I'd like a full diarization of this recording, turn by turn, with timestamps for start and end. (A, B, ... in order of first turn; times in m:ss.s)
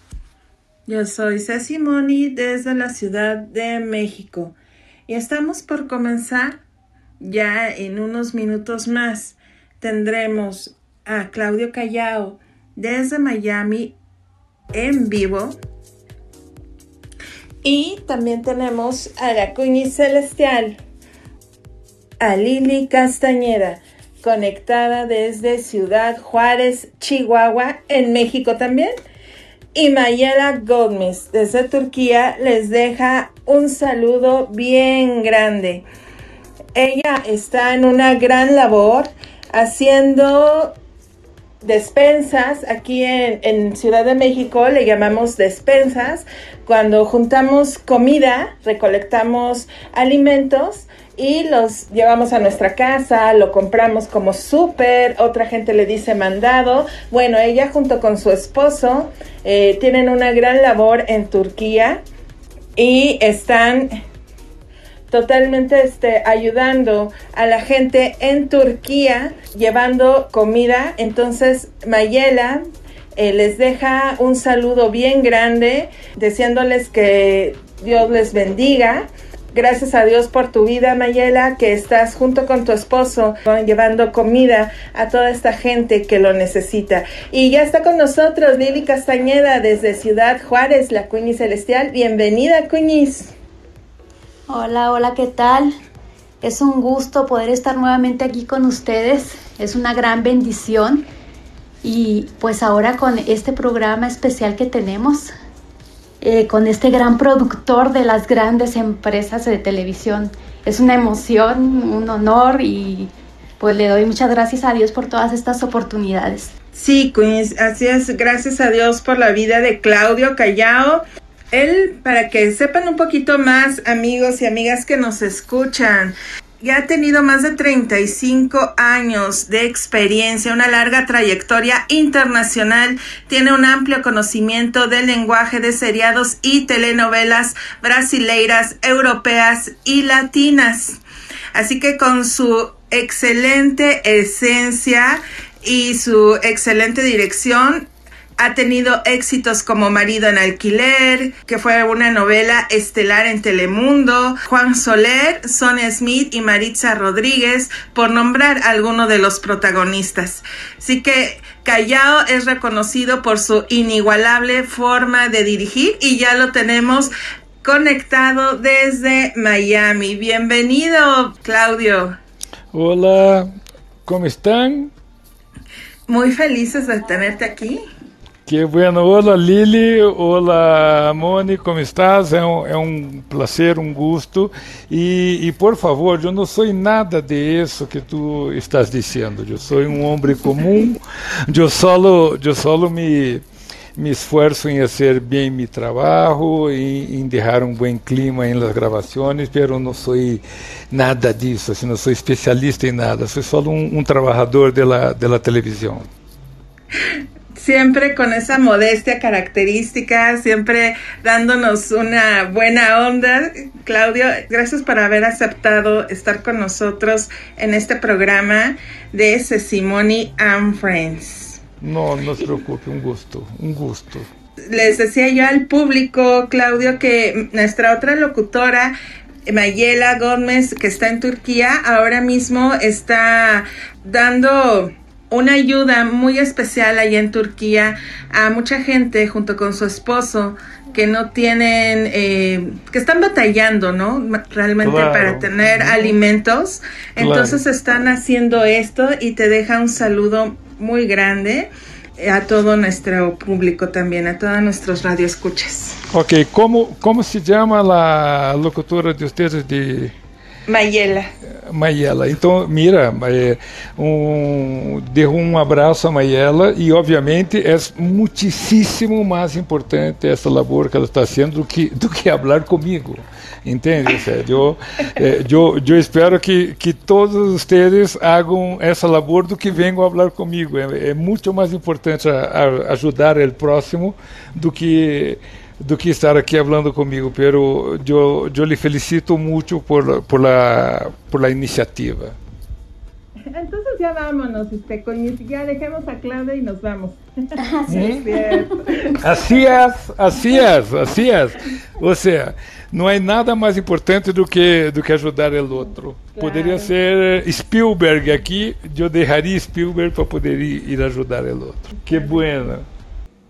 0:00.9-0:04.6 A
0:05.1-0:06.6 A
0:07.2-0:13.9 A
0:14.7-0:15.6 A
0:17.6-0:20.8 A
0:22.2-0:28.9 A
0:29.7-0:35.8 A
0:36.7-0:40.7 A
0:41.6-1:02.0 A
1:02.8-1:04.0 A
1:05.1-1:12.6 A
1:13.2-1:33.3 A
1:34.5-1:35.7 B
1:36.4-1:41.0 B
1:41.8-1:45.3 B
1:46.2-1:56.5 B
1:56.7-2:21.0 A
2:21.5-2:52.2 A
2:52.7-2:53.5 C
2:54.0-2:54.9 C
2:56.1-2:57.8 A
2:58.4-3:13.4 C
3:14.0-3:26.1 C
3:27.6-3:41.6 A
3:41.8-3:44.3 C
3:44.7-3:48.9 A
3:49.4-4:16.0 A
4:04.8-4:06.1 C
4:07.2-4:07.6 C
4:16.1-4:20.1 C
4:20.7-4:21.3 A
4:21.6-4:52.4 C
4:53.5-4:59.3 A
4:57.6-4:58.6 B
4:57.9-4:58.2 C
4:59.2-5:12.8 C
5:06.4-5:06.9 A